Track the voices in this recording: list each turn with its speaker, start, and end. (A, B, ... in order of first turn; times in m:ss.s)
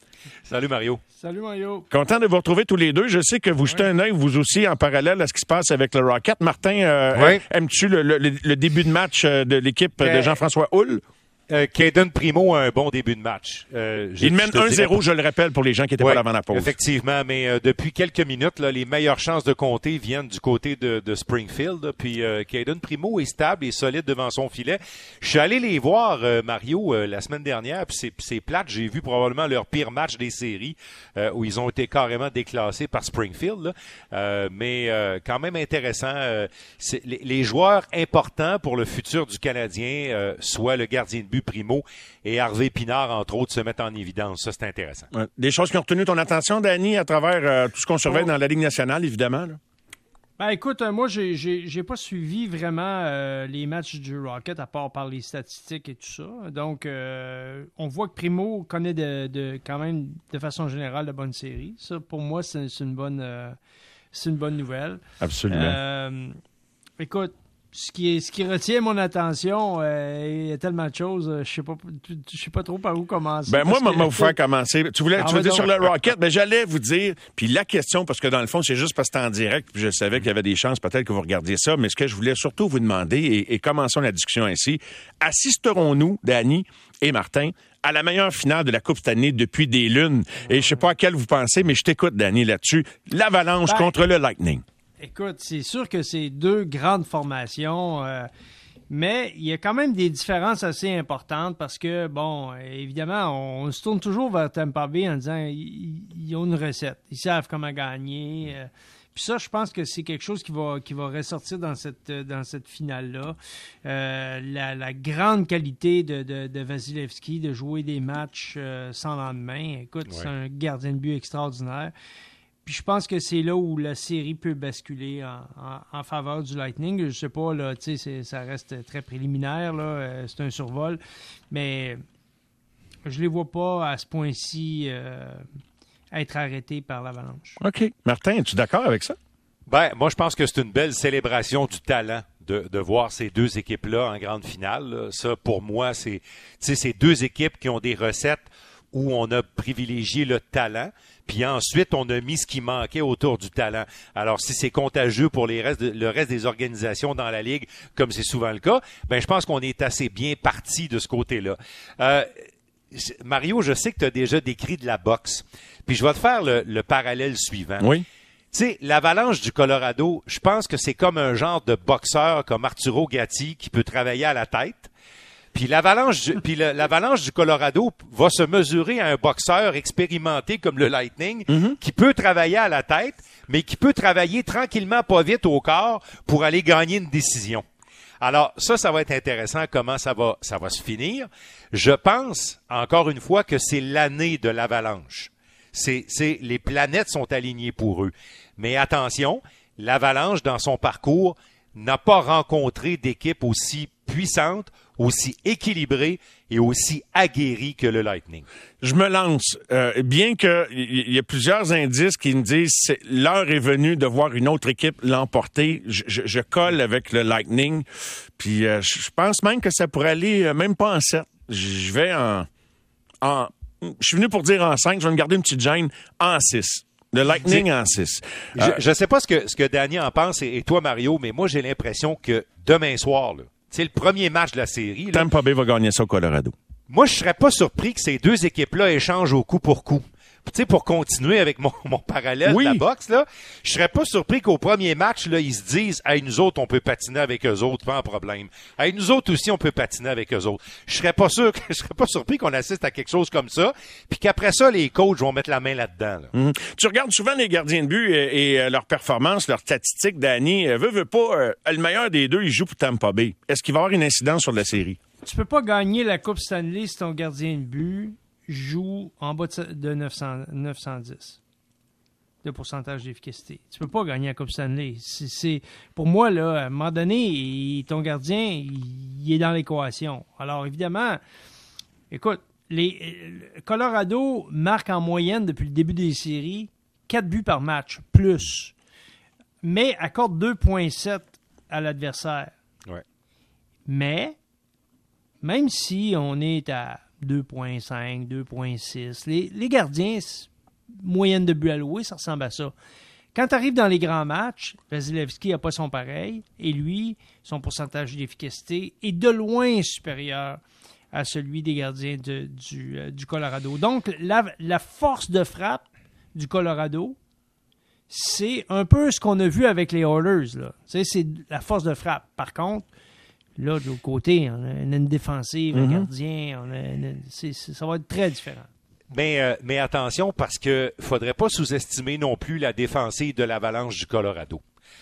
0:00.5-0:01.0 A
0:01.2-0:01.9 B
0:01.9-0:11.0 C
0:07.1-0:07.4 A
0:10.0-0:10.4 A
0:11.5-0:15.1 A
0:14.2-0:16.7 C
0:16.0-0:45.1 A
0:45.1-0:49.6 C
0:50.4-1:03.6 B
1:04.1-1:06.4 B
1:05.2-1:05.8 C
1:07.0-1:14.4 B
1:13.5-1:34.6 C
1:15.2-1:15.7 B
1:30.5-1:30.8 B
1:33.7-1:33.9 B
1:35.0-1:38.3 B
1:38.9-2:01.9 B
2:02.6-2:11.0 B
2:11.5-2:12.0 B
2:13.1-2:15.4 B
2:16.1-2:17.6 B
2:17.6-2:19.2 C
2:19.7-2:42.3 A
2:42.9-2:47.9 A
2:47.8-2:48.0 C
2:48.5-2:54.9 A
2:55.5-3:07.6 A
3:01.5-3:01.8 C
3:08.2-3:28.5 A
3:28.8-3:37.9 C
3:38.4-3:42.5 C
3:43.2-3:48.8 C
3:47.2-3:47.7 A
3:48.6-3:55.3 A
3:55.1-3:56.5 C
3:56.9-4:16.3 A
4:02.4-4:02.8 C
4:16.3-4:25.0 C
4:25.2-4:31.4 B
4:32.4-4:41.2 B
4:42.1-4:48.7 B
4:49.6-4:52.5 B
4:53.9-4:54.4 B
4:55.4-5:02.7 B
5:03.4-5:10.6 B
5:11.1-5:17.2 B
5:18.1-5:22.9 B
5:23.6-5:28.7 B
5:25.7-5:26.1 C
5:29.1-5:34.6 A